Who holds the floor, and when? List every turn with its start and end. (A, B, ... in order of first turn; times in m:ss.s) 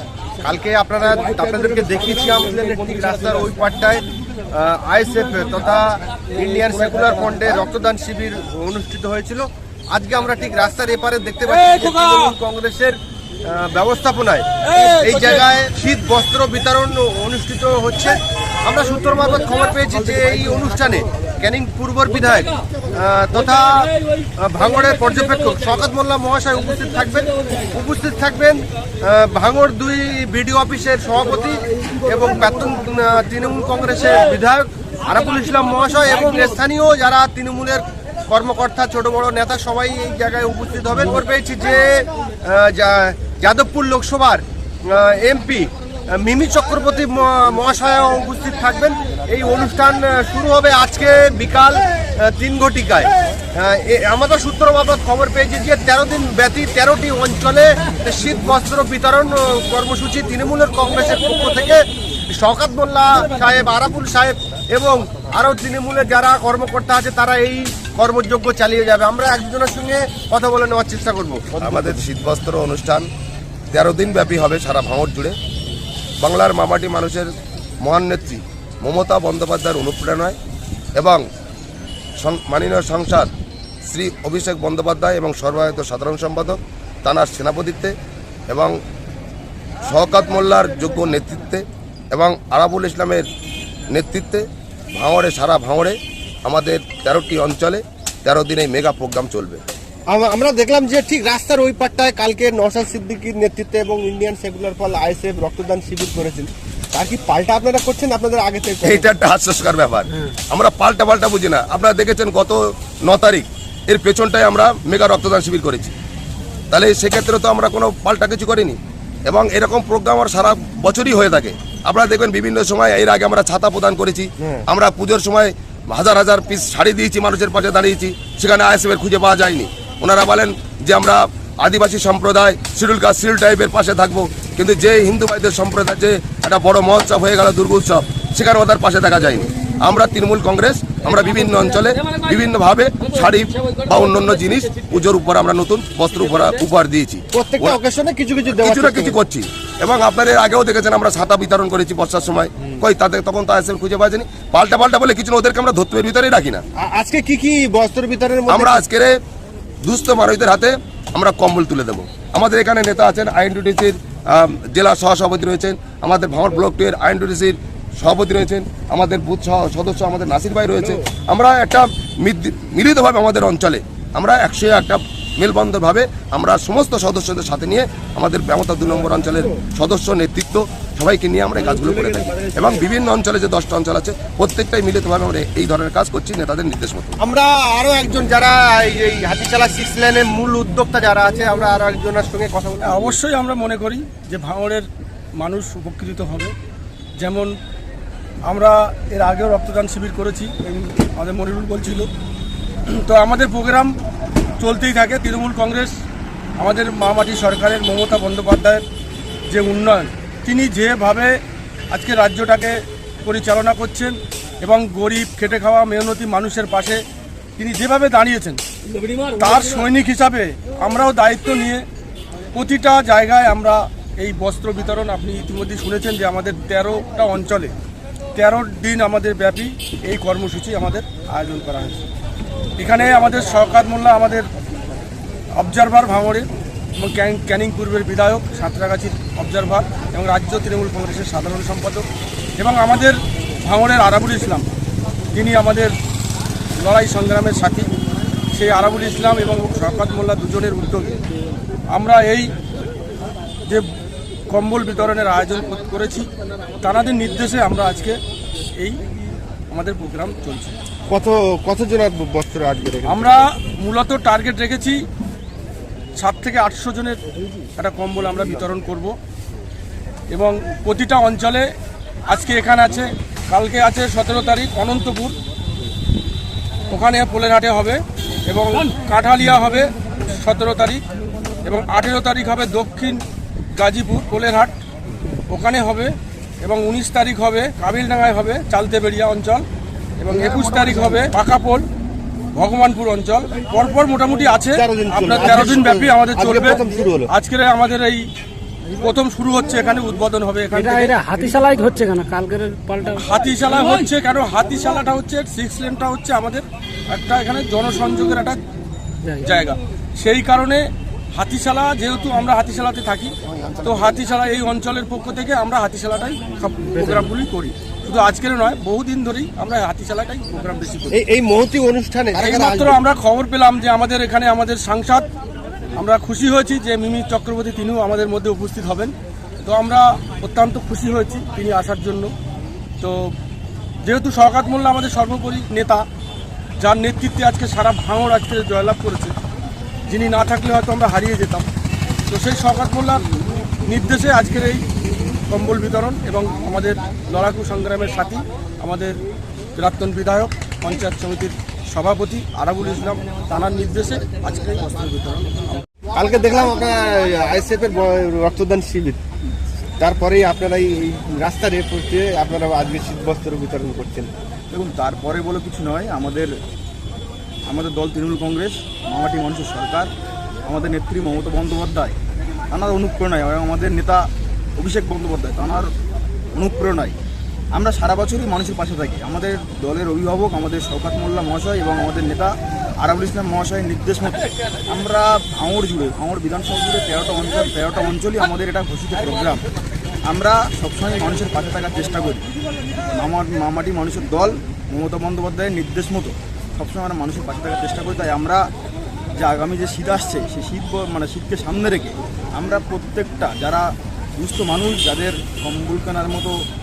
0:00.4-1:11.9 A
1:11.6-1:13.0 B
1:13.7-1:15.3 B
1:16.2-1:17.3 B
1:17.8-1:20.4 B
1:21.0-1:21.2 B
1:22.2-1:23.3 B
1:23.9-1:27.9 B
1:28.5-1:28.8 B
1:29.8-1:33.2 B
1:33.9-1:39.6 B
1:40.1-1:49.1 A
1:48.8-1:55.9 B
1:56.7-2:27.8 B
2:04.4-2:04.6 A
2:27.3-2:29.2 A
2:28.6-2:36.6 B
2:36.8-2:38.8 A
2:38.5-2:39.2 B
2:39.8-3:07.2 B
3:07.2-3:13.2 A
3:12.8-3:14.8 C
3:15.4-3:16.5 C
3:17.2-3:17.5 C
3:18.4-3:22.1 C
3:22.9-3:23.9 C
3:24.6-3:26.0 C
3:26.6-3:28.8 C
3:29.5-3:31.4 C
3:31.9-3:37.0 C
3:37.6-3:38.6 C
3:39.3-3:41.8 C
3:42.5-3:47.7 C
3:48.3-3:52.0 C
3:52.8-3:54.5 C
3:55.5-4:02.0 C
4:02.6-4:04.7 C
4:05.3-4:05.9 C
4:06.8-4:07.9 C
4:08.5-4:11.2 C
4:11.9-4:12.5 C
4:14.5-4:16.3 C
4:16.8-4:18.2 C
4:19.7-4:20.8 C
4:21.1-4:23.4 A
4:23.1-4:25.0 C
4:26.2-4:27.2 C
4:27.8-4:29.1 C
4:30.3-4:31.7 C
4:32.3-4:35.4 C
4:36.9-4:41.0 C
4:41.6-4:43.2 C
4:43.7-4:44.8 C
4:45.5-4:49.6 C
4:50.2-4:51.8 C
4:50.3-4:51.2 A
4:52.5-4:58.2 C
4:54.7-4:57.3 A
4:59.0-5:01.6 C
5:00.7-5:03.3 D
5:03.1-5:08.6 C
5:09.4-5:21.2 C
5:13.4-5:14.2 A
5:21.1-5:23.0 A
5:22.4-5:25.3 C
5:26.0-5:32.3 C
5:33.0-5:33.3 C
5:34.0-5:36.0 C
5:36.8-5:39.4 C
5:40.1-5:41.7 C
5:42.3-5:43.2 C
5:43.8-5:44.8 C
5:45.5-5:49.2 C
5:49.8-5:55.8 C
5:56.1-5:59.2 A
6:00.0-6:04.3 A
6:04.7-6:06.5 E
6:07.7-6:10.1 E
6:10.6-6:12.2 E
6:12.7-6:15.9 E
6:16.5-6:17.2 E
6:17.7-6:29.6 E
6:30.2-6:32.5 E
6:33.1-6:38.7 E
6:39.3-6:46.6 E